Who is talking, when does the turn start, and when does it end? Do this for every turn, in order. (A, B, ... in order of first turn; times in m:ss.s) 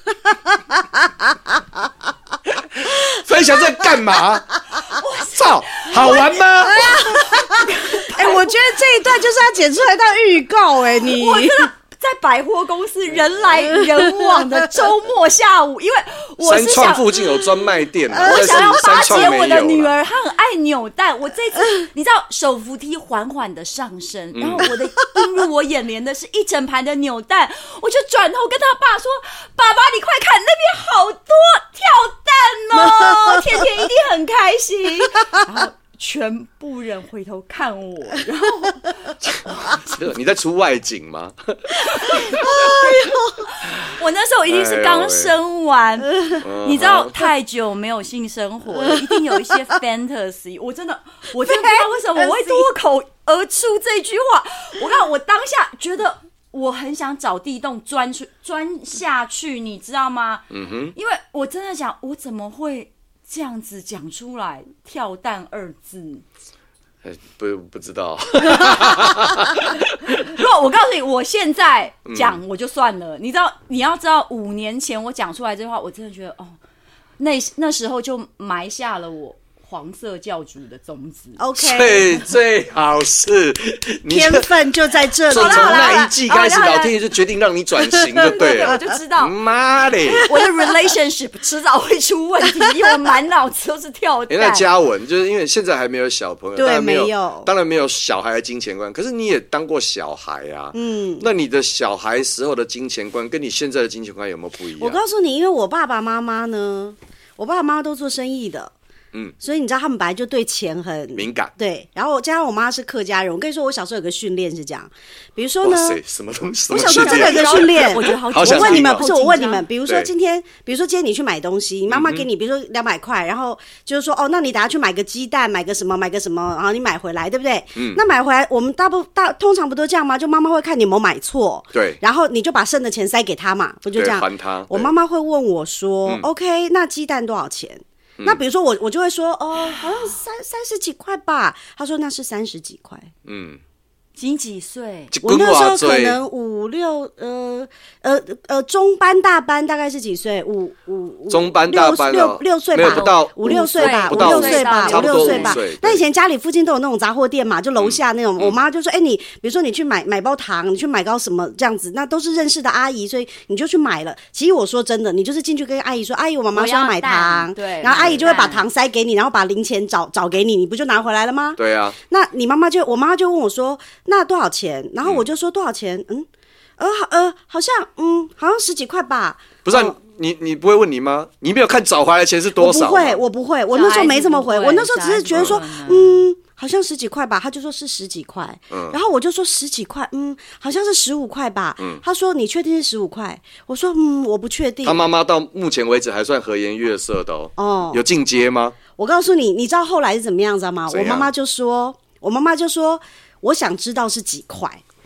0:02.8-0:04.6 A
0:04.9-0:08.6 B
0:05.3-0:07.2 A
0:06.7-0:11.7 C
0:11.0-0:17.2 B
0:16.4-0:19.9 A
0:18.1-0:19.4 C
0:18.2-0:39.8 B
0:24.4-0:24.7 A
0:32.8-0:33.6 C
0:39.2-0:42.6 A
0:41.9-1:06.2 B
0:42.4-0:43.5 C
0:44.5-0:45.3 A
0:46.4-0:47.3 A
0:49.1-0:49.4 C
0:51.4-0:52.7 C
1:00.5-1:00.9 A
1:07.0-1:10.3 A
1:10.1-1:16.6 B
1:12.1-1:12.4 A
1:17.2-1:21.4 B
1:21.4-1:22.2 C
1:21.6-1:24.5 A
1:24.1-1:26.1 C
1:25.3-1:30.3 A
1:25.3-1:27.0 B
1:28.0-1:28.8 C
1:28.2-1:29.4 B
1:30.2-1:34.7 B
1:34.3-1:45.0 A
1:36.6-1:37.5 C
1:40.7-1:41.3 C
1:44.8-1:48.7 C
1:49.4-1:56.0 C
1:51.2-1:51.5 A
1:55.6-1:59.0 A
1:56.7-2:23.1 C
1:56.8-1:59.7 B
2:01.9-2:02.3 A
2:07.8-2:08.0 A
2:11.7-2:12.0 A
2:13.9-2:14.9 A
2:23.3-2:23.6 A
2:24.2-2:25.1 B
2:25.1-2:26.2 A
2:25.2-3:00.0 C
2:31.3-2:36.0 A
2:32.8-2:35.6 B
2:37.8-2:38.6 A
2:46.5-2:48.7 B
2:47.9-2:48.3 A
2:51.6-2:52.0 A
2:59.6-3:03.2 A
3:02.6-3:15.0 C
3:03.7-3:06.2 B
3:05.3-3:05.6 A
3:08.7-3:09.0 A
3:14.8-3:18.8 A
3:17.6-3:18.0 C
3:19.0-3:24.8 C
3:20.9-3:21.3 A